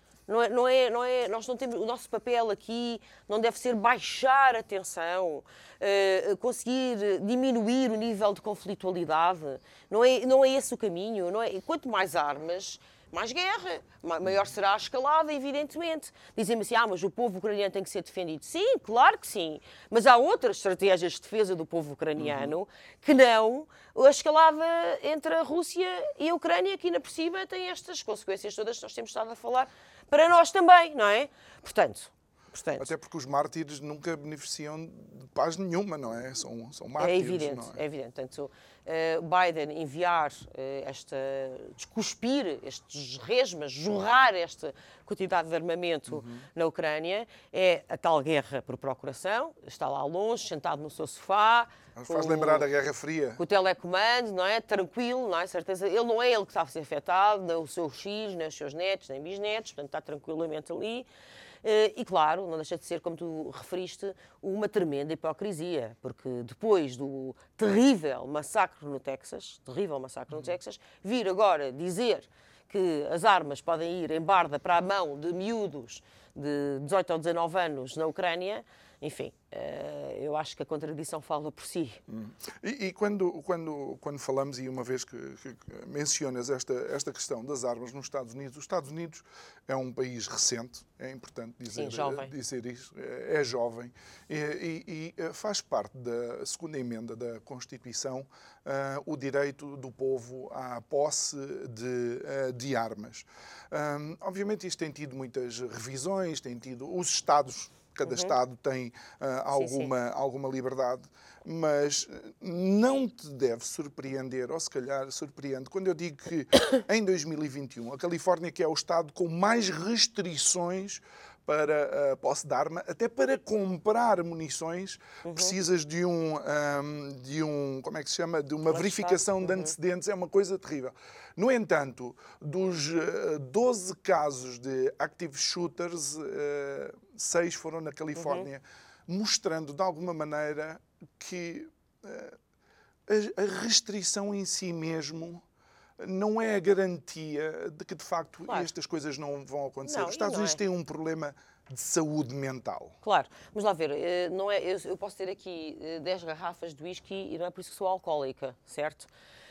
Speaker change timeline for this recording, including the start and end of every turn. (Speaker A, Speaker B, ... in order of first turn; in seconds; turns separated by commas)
Speaker A: 0.3-32.9, Speaker B: 22.2-22.5, Speaker B: 32.8-37.8, Speaker A: 37.0-52.7, Speaker B: 46.1-46.5, Speaker B: 52.0-53.4, Speaker A: 53.4-61.1, Speaker A: 61.6-82.0, Speaker B: 82.1-142.3, Speaker A: 91.7-92.3, Speaker A: 108.0-108.3, Speaker A: 109.5-109.9, Speaker A: 125.2-125.5, Speaker A: 128.7-129.7, Speaker A: 138.2-138.5, Speaker B: 143.1-145.4, Speaker B: 146.0-152.9, Speaker A: 149.8-150.6, Speaker A: 153.0-159.1